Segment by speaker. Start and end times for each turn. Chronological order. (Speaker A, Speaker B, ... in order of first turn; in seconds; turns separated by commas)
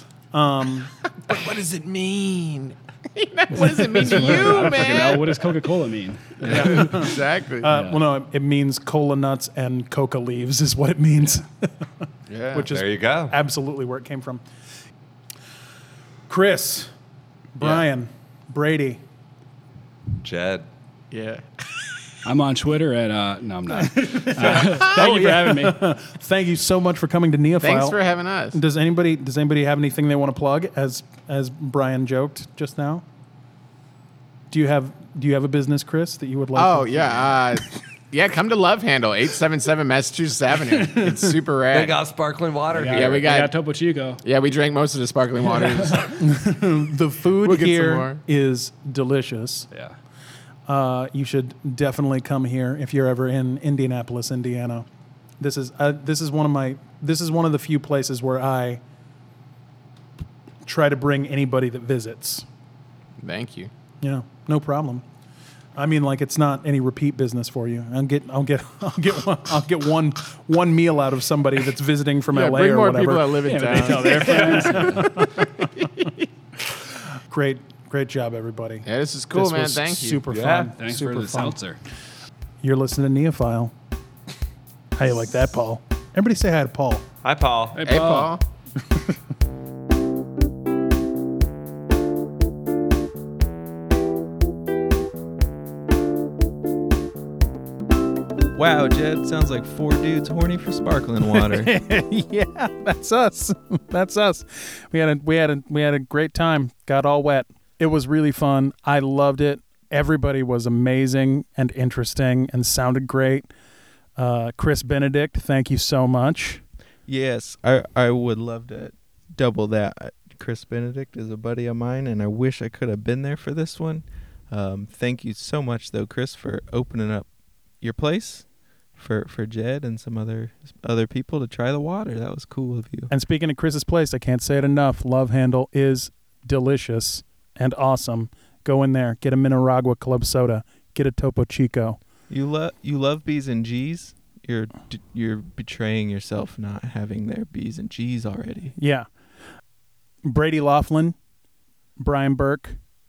Speaker A: 0.3-0.9, Speaker B: 1.2-5.5, Speaker C: 3.5-8.0, Speaker A: 3.5-4.6, Speaker A: 6.4-11.7, Speaker B: 6.5-7.7, Speaker B: 12.3-12.7, Speaker A: 12.5-14.4, Speaker D: 12.7-13.3, Speaker A: 16.3-16.9, Speaker A: 17.6-19.0, Speaker D: 20.2-20.7, Speaker B: 21.1-21.4, Speaker C: 22.2-25.8, Speaker A: 23.8-28.0, Speaker B: 27.6-28.6, Speaker A: 28.5-33.0, Speaker A: 34.5-37.3, Speaker B: 36.5-42.0, Speaker A: 40.7-41.3, Speaker D: 41.7-43.3, Speaker C: 42.7-44.2, Speaker B: 42.9-43.5, Speaker B: 44.2-46.2, Speaker C: 45.5-46.1, Speaker A: 46.1-49.7, Speaker B: 47.4-48.2, Speaker A: 50.7-54.9, Speaker A: 55.4-58.8, Speaker A: 60.6-62.5, Speaker B: 63.2-63.7, Speaker A: 64.0-65.0, Speaker A: 65.8-75.7, Speaker B: 72.3-75.1, Speaker C: 73.5-75.3, Speaker B: 75.8-76.1, Speaker A: 77.3-81.6, Speaker B: 78.8-80.2, Speaker D: 80.3-80.7, Speaker C: 80.7-81.8, Speaker A: 82.6-83.7, Speaker A: 85.0-87.0, Speaker D: 87.2-87.9, Speaker C: 87.8-88.3, Speaker B: 87.8-88.4, Speaker E: 98.5-101.7, Speaker A: 101.3-113.5, Speaker A: 114.2-116.6, Speaker E: 117.0-127.3, Speaker E: 127.8-128.4, Speaker E: 129.0-133.1, Speaker A: 133.1-142.0, Speaker E: 142.3-148.7, Speaker A: 148.8-149.1, Speaker A: 150.2-151.2, Speaker A: 152.0-152.8